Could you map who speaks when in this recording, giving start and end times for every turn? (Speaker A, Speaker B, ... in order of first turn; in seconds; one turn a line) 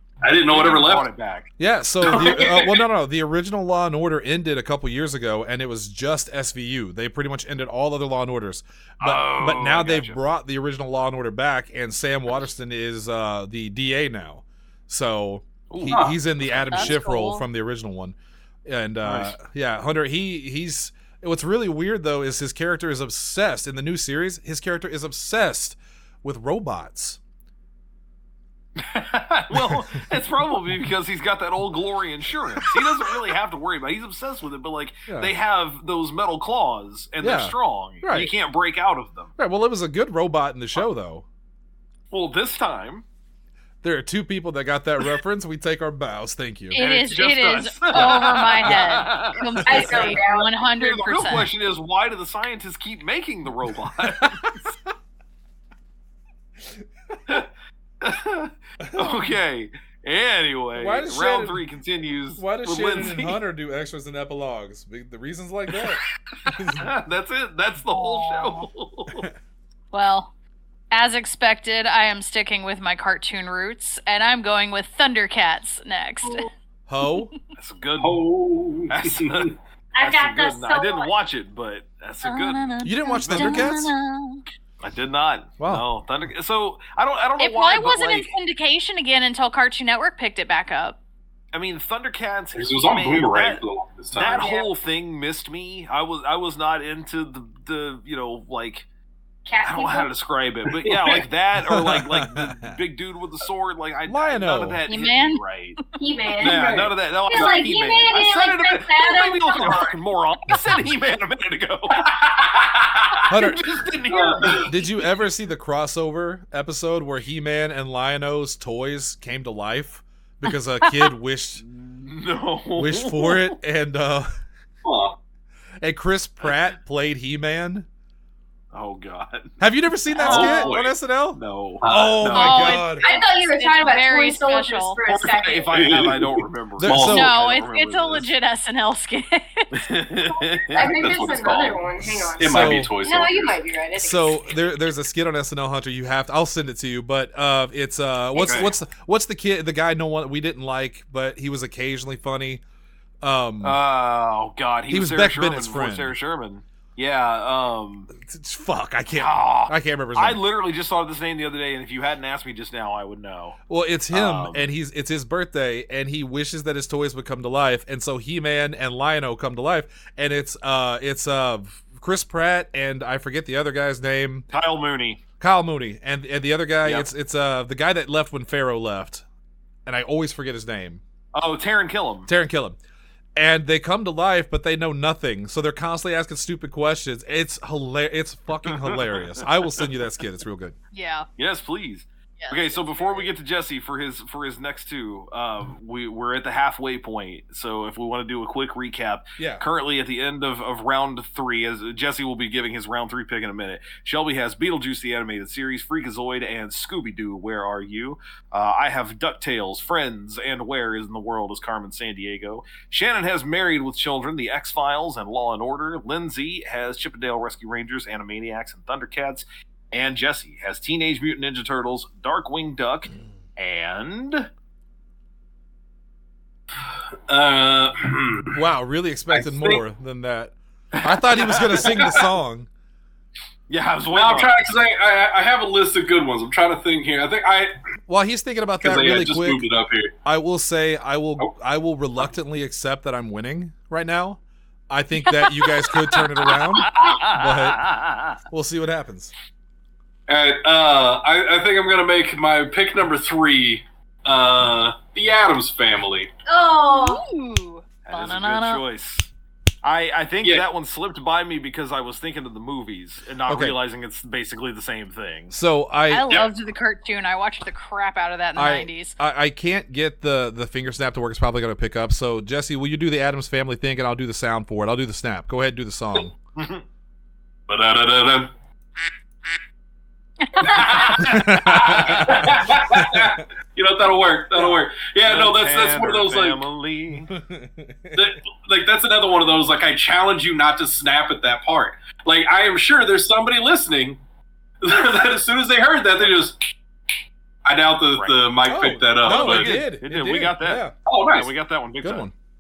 Speaker A: 0.2-1.1
Speaker B: 0.4-1.5
Speaker C: 1.6-27.2
Speaker A: 2.0-2.9
Speaker B: 9.0-10.2
Speaker B: 15.7-16.8
Speaker A: 15.9-16.1
Speaker D: 16.7-17.4
Speaker E: 16.9-17.4
Speaker B: 19.0-19.4
Speaker B: 28.8-39.3
Speaker C: 29.5-30.0
Speaker C: 37.2-38.3
Speaker C: 39.4-41.2
Speaker B: 42.1-43.0
Speaker C: 43.8-46.8
Speaker D: 46.7-51.5
Speaker B: 46.7-54.6
Speaker E: 49.6-50.5
Speaker C: 54.1-54.6
Speaker B: 58.0-63.4
Speaker C: 60.7-61.6
Speaker C: 62.4-66.9
Speaker B: 65.8-69.2
Speaker D: 67.9-68.7
Speaker D: 69.9-70.3
Speaker D: 70.9-76.5
Speaker C: 76.9-77.3
Speaker B: 77.6-78.2
Speaker A: 78.0-79.5
Speaker B: 78.9-83.7
Speaker E: 79.9-81.1
Speaker D: 82.2-84.4
Speaker C: 82.8-83.9
Speaker B: 84.8-88.3
Speaker C: 85.6-85.8
Speaker D: 87.4-91.0
Speaker B: 91.5-93.6
Speaker A: 92.5-94.5
Speaker B: 94.1-98.9
Speaker E: 94.2-94.7
Speaker E: 99.5-100.1
Speaker B: 99.6-105.8
Speaker A: 100.7-101.2
Speaker C: 101.6-102.7
Speaker C: 104.1-104.8
Speaker D: 104.9-105.4
Speaker E: 106.0-110.0
Speaker B: 106.4-112.1
Speaker A: 106.4-107.6
Speaker A: 112.0-113.3
Speaker B: 113.2-114.7
Speaker C: 113.3-113.7
Speaker A: 114.1-114.7
Speaker C: 114.6-121.6
Speaker B: 121.6-123.6
Speaker C: 122.8-124.3
Speaker A: 124.8-125.2
Speaker C: 125.8-127.9
Speaker B: 128.7-129.5
Speaker C: 129.6-133.0
Speaker D: 130.1-130.7
Speaker B: 130.2-130.6
Speaker A: 130.2-130.9
Speaker B: 131.3-132.8
Speaker A: 131.8-132.5
Speaker D: 132.3-135.0
Speaker E: 132.9-135.9
Speaker B: 135.1-138.3
Speaker A: 135.7-137.3
Speaker C: 136.8-137.4
Speaker D: 137.0-139.9
Speaker B: 139.7-140.9
Speaker E: 140.5-144.6
Speaker A: 140.8-143.6
Speaker C: 142.4-142.9
Speaker C: 143.9-152.6
Speaker B: 148.3-148.7
Speaker C: 153.2-153.8
Speaker B: 153.6-158.1
Speaker C: 154.9-156.1
Speaker C: 158.1-160.4
Speaker B: 159.2-163.6
Speaker C: 163.7-174.5
Speaker B: 164.1-164.7
Speaker B: 174.5-175.2
Speaker C: 175.4-179.2
Speaker C: 179.9-181.0
Speaker B: 181.3-182.3
Speaker C: 182.3-182.8
Speaker C: 183.4-190.8
Speaker D: 190.9-191.3
Speaker B: 191.4-224.5
Speaker D: 192.4-193.3
Speaker C: 199.4-199.6
Speaker A: 227.3-228.6
Speaker C: 228.5-232.7
Speaker A: 229.3-229.8
Speaker B: 230.9-232.1
Speaker A: 231.9-232.2
Speaker B: 233.7-234.7
Speaker A: 234.1-237.7
Speaker C: 238.1-239.7
Speaker A: 238.8-240.1
Speaker C: 240.2-247.9
Speaker D: 245.4-246.3
Speaker B: 246.7-248.4
Speaker C: 248.5-249.3
Speaker A: 250.3-256.3
Speaker E: 256.5-257.2
Speaker D: 256.8-258.8
Speaker B: 258.1-259.3
Speaker B: 259.8-265.6
Speaker C: 263.4-263.8
Speaker C: 265.5-266.4
Speaker D: 266.1-269.1
Speaker C: 268.6-276.4
Speaker B: 276.6-276.8
Speaker A: 277.7-278.5
Speaker D: 280.5-280.8
Speaker A: 280.6-286.6
Speaker B: 280.9-282.6
Speaker C: 281.2-283.3
Speaker B: 284.5-287.3
Speaker C: 287.2-288.4
Speaker A: 288.1-294.2
Speaker A: 294.8-296.6
Speaker A: 297.6-299.7
Speaker C: 298.6-300.9
Speaker B: 299.2-302.3
Speaker A: 301.1-301.5
Speaker C: 302.0-302.3